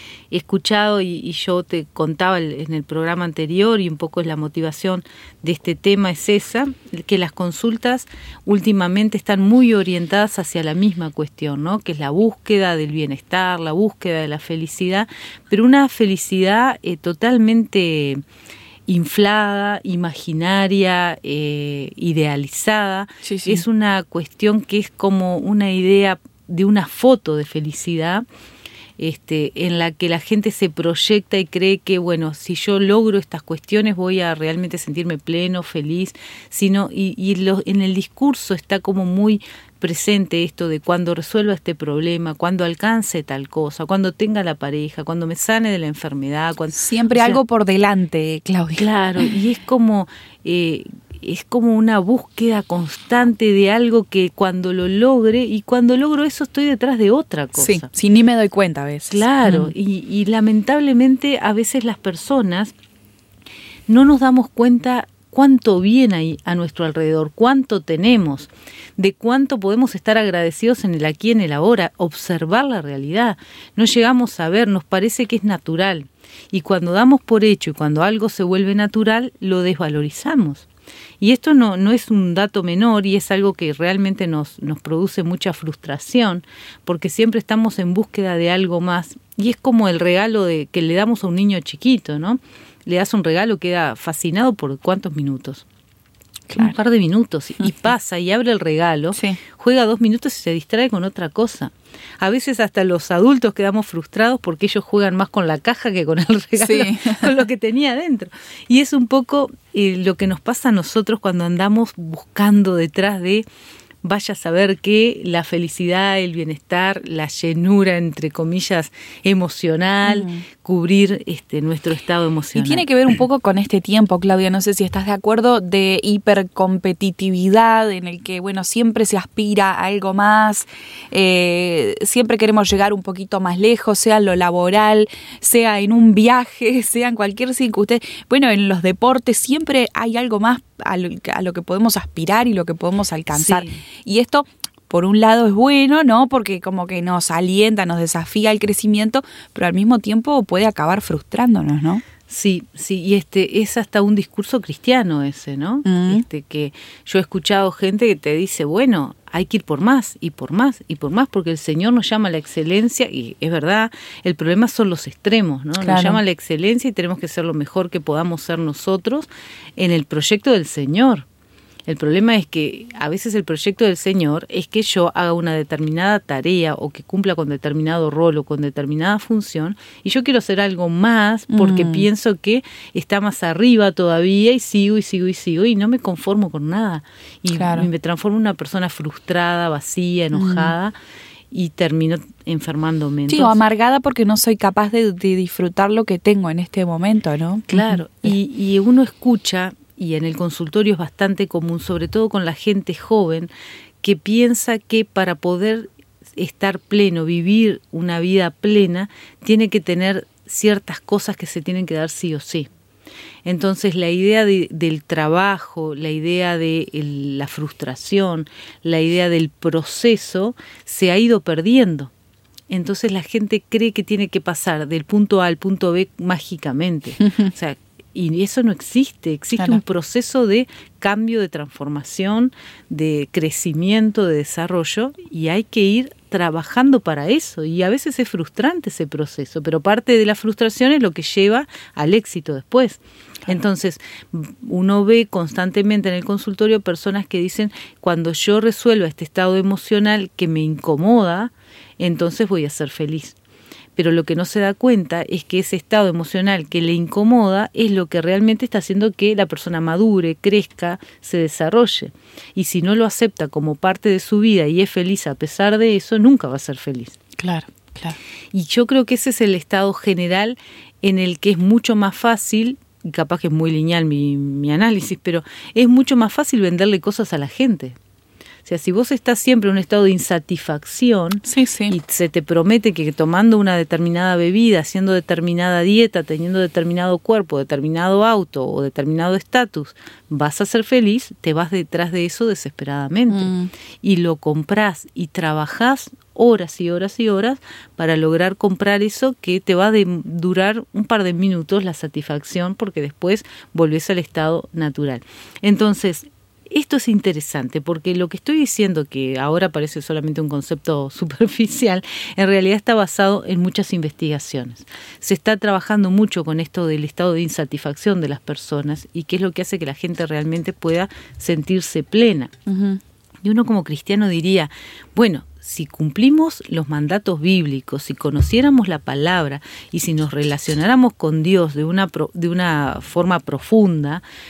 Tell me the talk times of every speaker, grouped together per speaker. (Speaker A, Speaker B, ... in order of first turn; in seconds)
Speaker A: 0.3-18.2, 18.9-28.2, 29.0-47.4, 48.8-57.9, 59.1-62.7, 63.9-80.7, 81.2-95.7, 96.5-113.5, 114.0-122.8, 143.3-143.8, 152.3-171.3, 171.9-190.9, 191.5-193.6, 197.7-203.5, 204.0-212.7, 213.4-222.1, 222.7-253.4, 253.9-267.2, 268.5-278.0, 278.6-293.5, 294.0-322.6, 323.4-334.2
Speaker B: 23.2-23.6, 46.8-48.9, 57.6-59.7, 96.5-96.8, 99.2-99.4, 106.6-107.3, 120.0-120.4, 122.5-152.0, 155.8-156.2, 165.8-166.2, 181.5-182.1, 187.5-187.9, 190.3-190.7, 193.3-198.0, 267.4-268.2, 281.5-282.0, 293.3-293.7, 322.7-323.0